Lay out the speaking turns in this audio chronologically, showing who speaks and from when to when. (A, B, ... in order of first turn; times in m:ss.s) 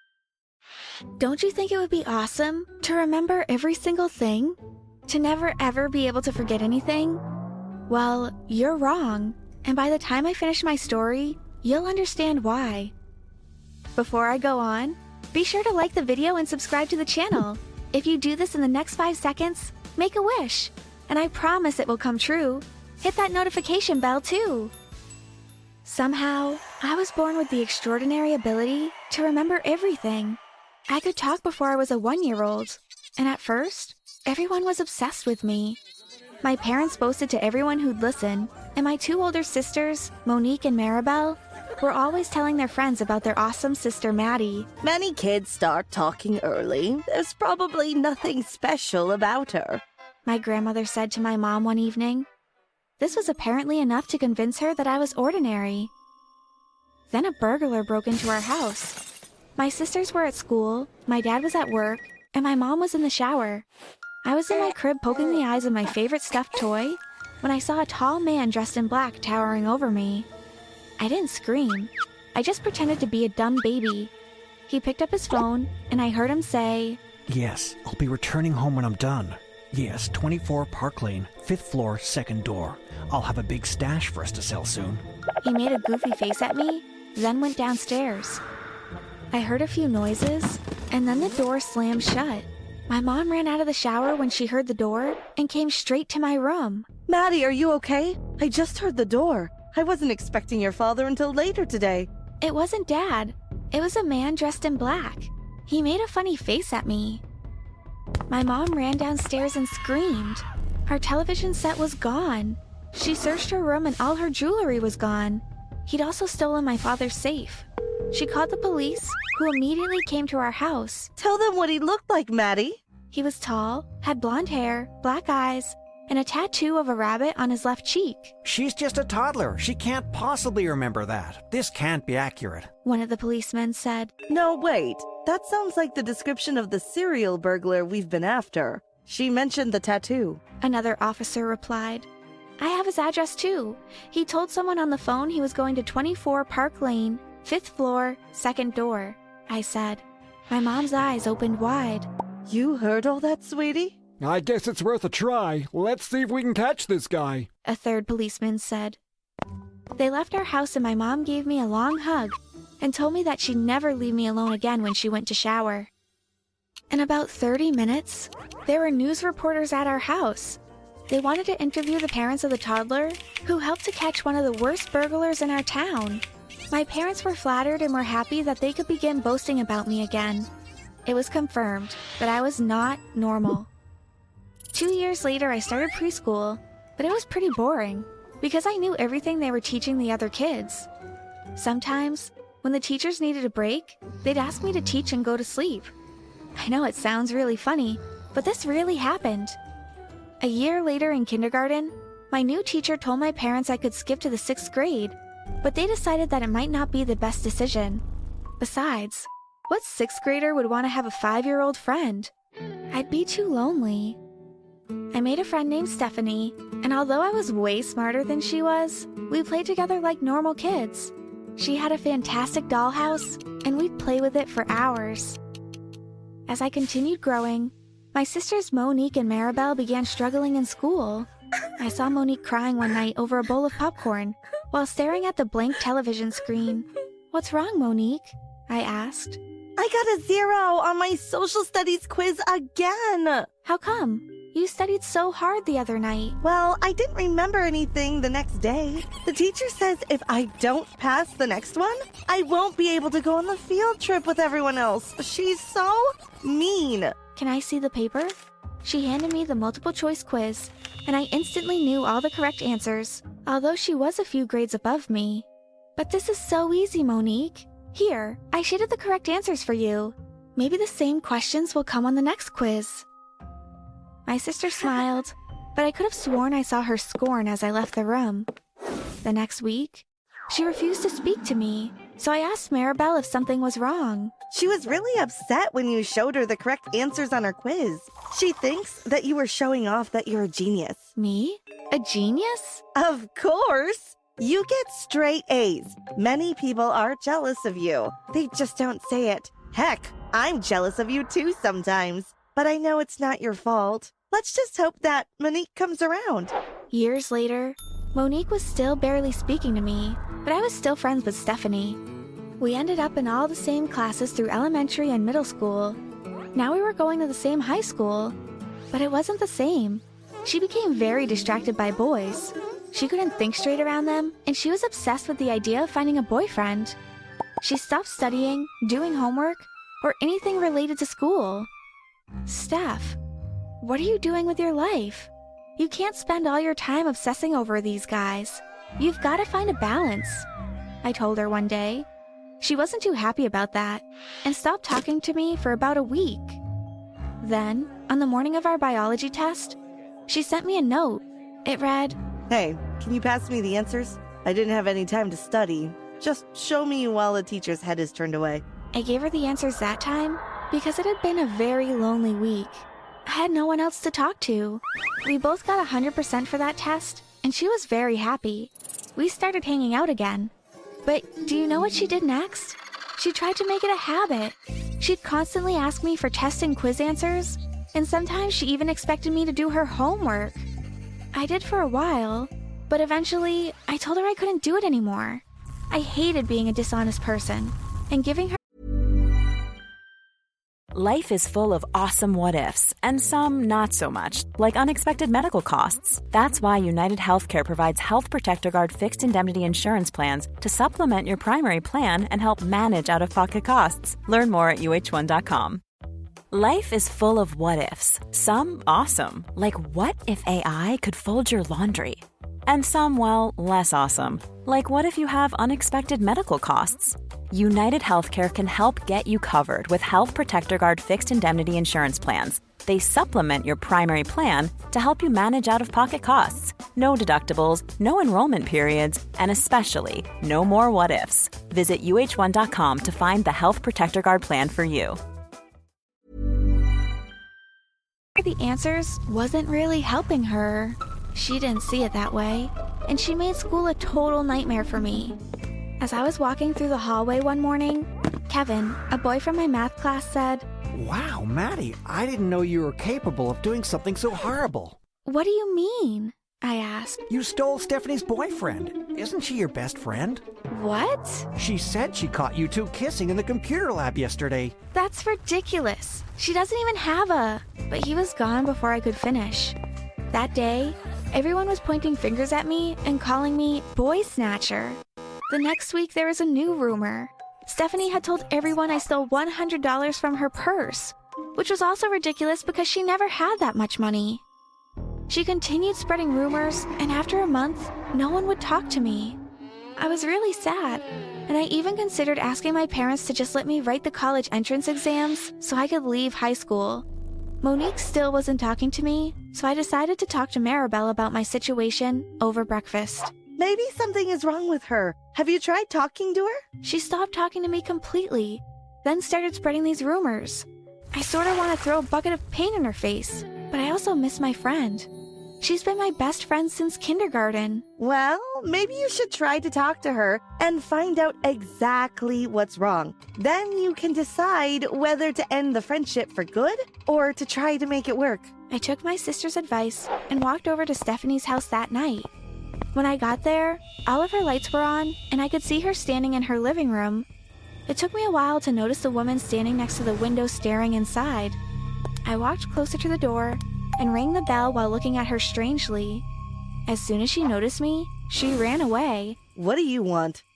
0:01.2-0:07.2 A
0:07.9-0:12.9 A
0:14.0-0:24.7 A
0:25.8-0:35.8 A
0:36.4-0:44.7 A
0:44.8-0:49.8 B
0:50.2-0:52.3 A
0:53.0-0:55.9 A
0:57.1-0:59.0 A
0:59.6-1:03.6 A
1:04.2-1:10.3 A
1:11.0-1:14.1 A
1:14.7-1:17.0 A
1:17.3-1:25.0 C
1:25.4-1:28.4 A
1:29.3-1:36.8 A
1:37.1-1:42.1 B
1:42.4-1:47.2 A
1:48.3-2:01.1 A
2:01.2-2:02.8 B
2:03.1-2:08.3 A
2:08.4-2:12.7 C
2:12.8-2:14.1 A
2:14.3-2:20.4 B
2:20.6-2:22.1 A
2:22.6-2:32.1 A
2:32.5-2:34.0 B
2:34.4-2:34.8 D
2:34.7-2:35.8 C
2:35.7-2:37.3 D
2:36.4-2:37.4 C
2:37.6-2:39.0 A
2:40.0-2:45.9 A
2:46.9-3:00.5 A
3:01.0-3:03.7 A
3:04.7-3:10.9 A
3:11.5-3:15.9 A
3:16.6-3:19.6 A
3:20.4-3:28.0 A
3:28.6-3:32.3 A
3:32.9-3:34.2 A
3:35.1-3:45.4 A
3:46.5-3:59.4 A
3:59.8-4:03.5 B
4:03.6-4:06.4 A
4:06.4-4:17.1 B
4:17.4-4:33.0 A
4:34.2-4:38.5 A
4:39.2-4:44.3 A
4:44.5-4:51.1 B
4:51.2-4:52.8 A
4:53.0-5:06.5 B
5:06.9-5:12.0 A
5:12.6-5:16.0 A
5:16.5-5:18.4 A
5:18.9-5:27.0 A
5:27.6-5:31.7 A
5:32.4-5:33.2 A
5:33.8-5:40.4 A
5:41.0-5:42.0 A
5:42.6-5:46.6 A
5:47.4-5:52.2 A
5:52.5-5:58.6 B
5:58.9-6:10.5 A
6:11.0-6:20.6 A
6:21.3-6:28.6 A
6:30.9-6:45.8 E
6:46.5-7:15.2 E
7:18.4-7:25.4 A
7:26.0-7:30.6 A
7:30.9-7:35.0 C
7:35.2-7:37.2 A
7:37.3-7:40.4 C
7:40.7-7:41.5 A
7:41.5-7:44.7 C
7:44.9-7:49.8 A
7:50.3-8:04.4 A
8:05.3-8:09.4 A
8:10.0-8:17.0 A
8:17.6-8:23.3 A
8:23.6-8:26.6 B
8:26.8-8:35.1 A
8:35.6-8:37.8 A
8:38.0-8:48.5 B
8:48.7-8:52.3 A
8:52.9-8:57.2 A
8:57.9-9:01.6 A
9:02.2-9:06.2 A
9:06.9-9:09.4 A
9:09.5-9:10.4 B